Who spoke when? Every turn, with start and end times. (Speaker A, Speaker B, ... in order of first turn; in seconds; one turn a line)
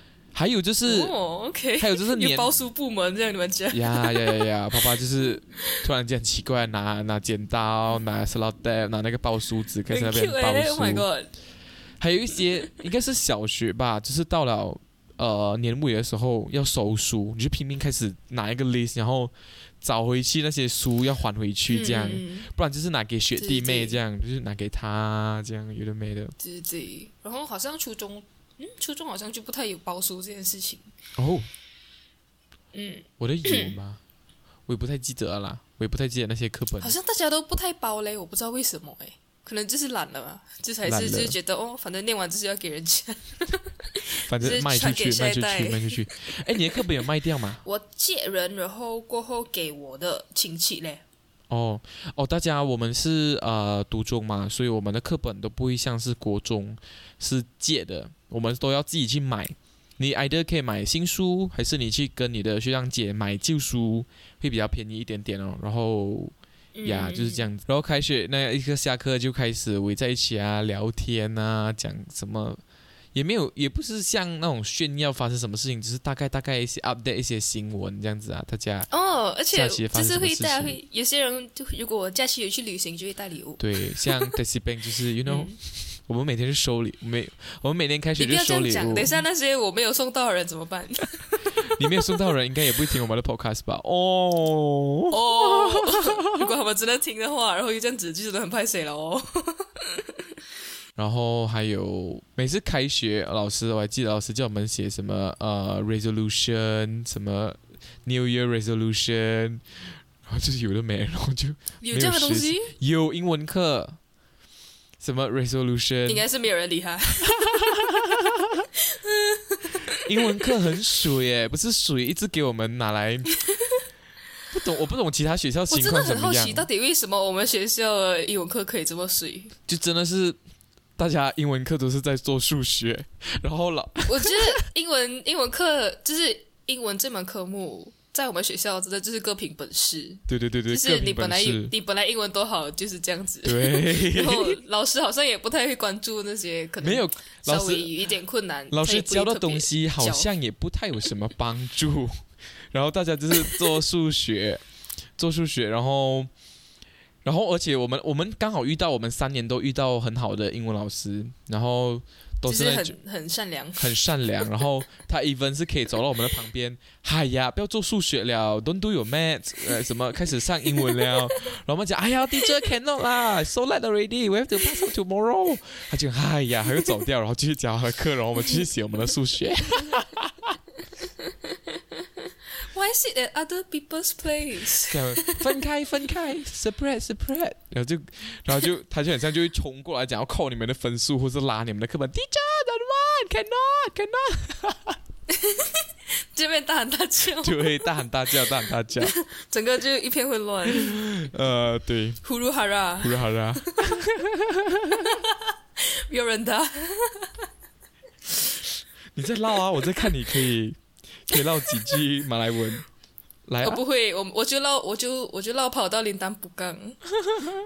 Speaker A: 0.3-1.1
Speaker B: 0.8-5.8
Speaker A: 1.8-2.5
Speaker A: 3.7-11.1
Speaker B: 9.9-11.3
Speaker A: 12.0-26.3
Speaker B: 21.7-22.5
Speaker B: 23.4-24.0
Speaker B: 26.4-30.9
Speaker A: 31.2-31.5
Speaker B: 32.7-33.7
Speaker A: 33.2-34.0
Speaker A: 34.7-36.9
Speaker B: 36.8-46.8
Speaker A: 40.8-41.3
Speaker A: 44.2-47.6
Speaker B: 47.6-51.0
Speaker A: 51.5-66.3
Speaker B: 66.7-67.5
Speaker A: 66.8-72.6
Speaker A: 73.1-78.9
Speaker B: 78.9-84.3
Speaker A: 79.5-80.8
Speaker A: 83.6-89.1
Speaker B: 85.2-85.6
Speaker B: 88.2-91.7
Speaker A: 91.6-96.4
Speaker B: 95.1-100.2
Speaker A: 101.0-109.6
Speaker A: 110.2-114.0
Speaker B: 111.8-112.7
Speaker A: 115.0-116.2
Speaker B: 116.0-117.8
Speaker A: 117.2-118.6
Speaker B: 118.8-120.5
Speaker A: 119.9-123.3
Speaker A: 124.5-126.7
Speaker B: 125.7-129.5
Speaker A: 129.7-130.4
Speaker A: 131.0-134.4
Speaker B: 134.1-150.3
Speaker A: 140.3-141.7
Speaker A: 143.4-144.6
Speaker A: 146.8-147.9
Speaker A: 148.7-154.6
Speaker A: 155.2-156.3
Speaker A: 157.2-162.9
Speaker B: 162.4-164.0
Speaker A: 163.8-180.6
Speaker B: 170.8-171.2
Speaker B: 181.0-185.5
Speaker A: 184.9-195.0
Speaker B: 195.3-198.0
Speaker A: 197.4-199.1
Speaker B: 199.0-201.0
Speaker A: 200.7-202.2
Speaker B: 202.2-204.0
Speaker A: 203.0-205.1
Speaker B: 205.0-207.4
Speaker A: 209.1-212.8
Speaker B: 211.6-211.9
Speaker A: 213.5-213.8
Speaker B: 213.6-217.0